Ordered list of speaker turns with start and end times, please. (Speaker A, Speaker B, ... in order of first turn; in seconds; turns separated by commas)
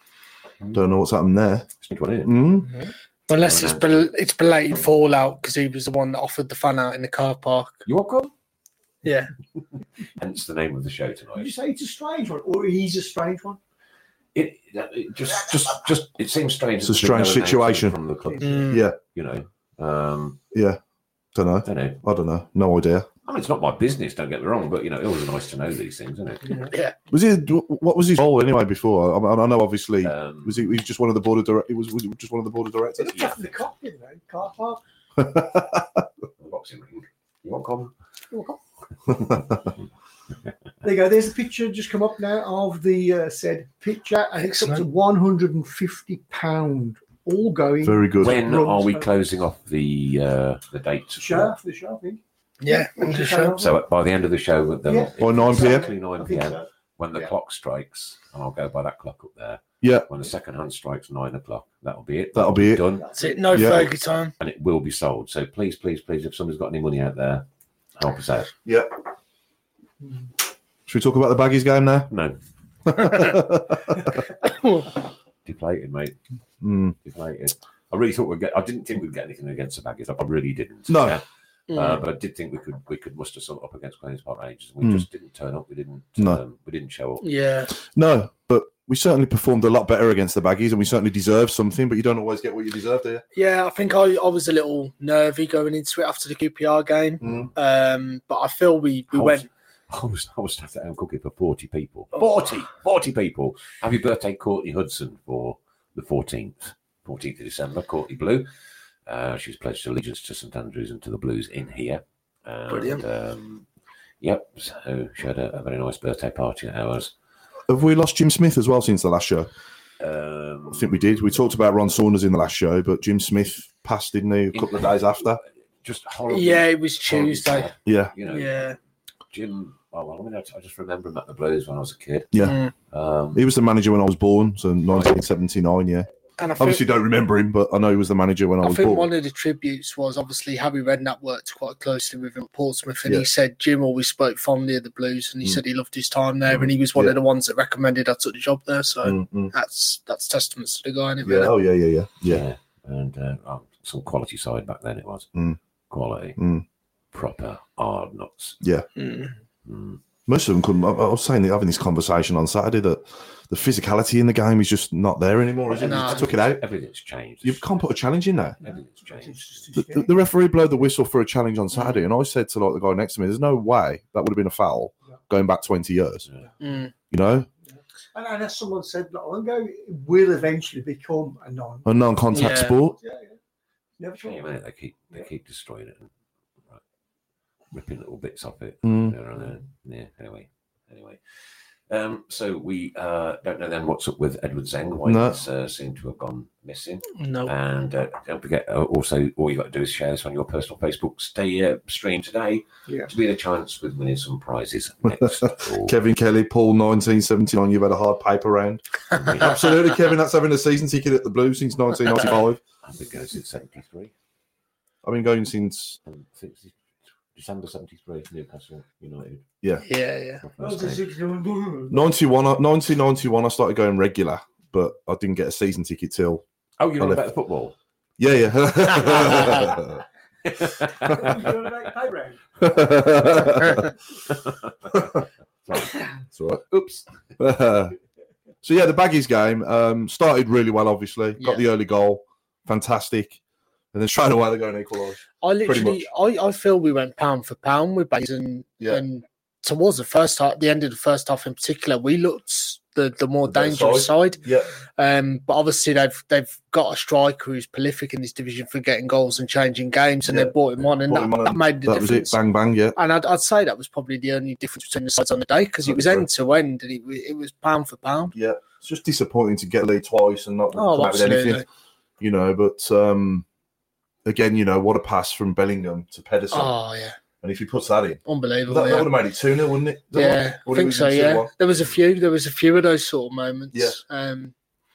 Speaker A: 0.7-1.7, Speaker B: 1.8-2.5, Speaker A: 2.2-2.7, Speaker C: 3.3-7.8, Speaker B: 3.4-4.1, Speaker B: 7.8-8.3, Speaker C: 9.0-9.3, Speaker B: 9.6-11.5, Speaker D: 11.4-13.6, Speaker B: 14.3-20.4, Speaker A: 16.8-17.9, Speaker D: 18.3-18.6, Speaker C: 18.4-18.8, Speaker A: 18.7-19.0, Speaker A: 20.5-20.8, Speaker A: 21.3-23.1, Speaker B: 21.6-22.0, Speaker B: 23.2-26.6, Speaker C: 26.6-26.9, Speaker A: 27.1-33.2, Speaker B: 30.0-30.7, Speaker D: 33.0-34.8, Speaker B: 33.1-33.4, Speaker A: 35.2-36.0, Speaker B: 36.4-37.9, Speaker D: 38.3-38.6, Speaker A: 39.1-39.5, Speaker D: 40.8-49.1, Speaker C: 44.4-44.8, Speaker A: 47.8-48.5, Speaker B: 48.2-51.5, Speaker D: 51.2-53.8, Speaker C: 52.6-53.6, Speaker B: 53.6-63.8, Speaker D: 54.9-57.3, Speaker A: 55.2-55.9, Speaker A: 59.8-60.1, Speaker A: 62.3-62.9, Speaker D: 63.0-63.4, Speaker C: 63.2-64.3, Speaker A: 63.5-63.9, Speaker B: 64.4-67.5, Speaker B: 68.0-68.5, Speaker A: 68.6-68.9, Speaker A: 70.9-72.1, Speaker B: 72.1-72.4, Speaker A: 72.8-74.2, Speaker C: 74.4-74.8, Speaker B: 75.4-76.2, Speaker A: 76.6-77.0, Speaker B: 77.0-87.2, Speaker A: 80.9-81.2, Speaker C: 81.7-82.0, Speaker C: 87.2-87.7, Speaker A: 87.8-93.2, Speaker C: 93.3-99.5, Speaker A: 97.2-97.5, Speaker B: 97.2-97.5, Speaker B: 99.1-108.5, Speaker C: 102.2-102.5, Speaker B: 109.1-113.7, Speaker C: 112.7-113.0, Speaker B: 114.2-117.1, Speaker A: 117.7-119.5, Speaker B: 120.0-121.1, Speaker A: 120.7-125.4, Speaker B: 124.5-128.7, Speaker C: 126.3-127.7, Speaker A: 127.8-128.1, Speaker C: 128.2-128.8, Speaker B: 129.3-132.3, Speaker A: 132.3-132.6, Speaker C: 132.4-132.7, Speaker B: 132.9-133.4, Speaker A: 133.3-136.1, Speaker B: 134.9-135.2, Speaker C: 136.4-136.8, Speaker A: 136.6-139.1, Speaker C: 138.6-151.6, Speaker A: 146.5-147.2, Speaker A: 149.0-149.5, Speaker A: 151.2-152.4, Speaker B: 152.2-155.3, Speaker B: 155.9-156.4, Speaker A: 156.4-156.6, Speaker B: 157.1-158.6, Speaker A: 158.6-158.8, Speaker C: 159.0-159.3, Speaker B: 159.7-160.0, Speaker A: 160.3-166.6, Speaker B: 165.7-167.8, Speaker C: 165.8-166.3, Speaker A: 167.4-168.6, Speaker B: 168.6-169.6, Speaker D: 168.6-170.1, Speaker A: 169.7-176.2, Speaker C: 176.6-176.9, Speaker A: 177.1-177.5, Speaker D: 177.7-181.9, Speaker A: 181.8-183.0, Speaker C: 182.3-182.8, Speaker D: 182.9-183.3, Speaker D: 184.0-184.4, Speaker B: 184.2-186.1, Speaker B: 187.7-205.9, Speaker A: 188.8-189.2, Speaker A: 195.0-195.4, Speaker C: 197.2-197.5, Speaker A: 205.2-212.6, Speaker B: 209.1-209.7, Speaker B: 212.8-214.1, Speaker A: 215.0-216.0, Speaker B: 216.1-216.8, Speaker B: 217.3-219.4, Speaker C: 219.8-220.4, Speaker B: 220.4-221.0, Speaker D: 220.6-222.0, Speaker A: 221.9-226.4, Speaker B: 226.8-227.7, Speaker A: 228.2-230.0, Speaker B: 229.1-229.7, Speaker B: 230.4-231.7, Speaker D: 231.1-232.8, Speaker A: 232.6-233.9, Speaker B: 234.3-235.1, Speaker A: 234.9-235.2, Speaker B: 235.7-235.9, Speaker A: 236.3-236.6, Speaker B: 236.7-237.0, Speaker A: 237.4-238.0, Speaker A: 238.6-243.4, Speaker C: 241.4-241.6, Speaker A: 243.9-246.1, Speaker C: 245.4-254.4, Speaker A: 253.5-254.7, Speaker C: 255.0-262.4, Speaker A: 260.2-263.0, Speaker C: 262.9-268.3, Speaker A: 265.8-266.3, Speaker A: 268.3-271.6, Speaker C: 270.7-271.6, Speaker A: 272.2-273.4, Speaker A: 274.2-276.7, Speaker C: 276.5-277.1, Speaker A: 277.4-281.5, Speaker C: 278.2-279.1, Speaker C: 280.1-284.5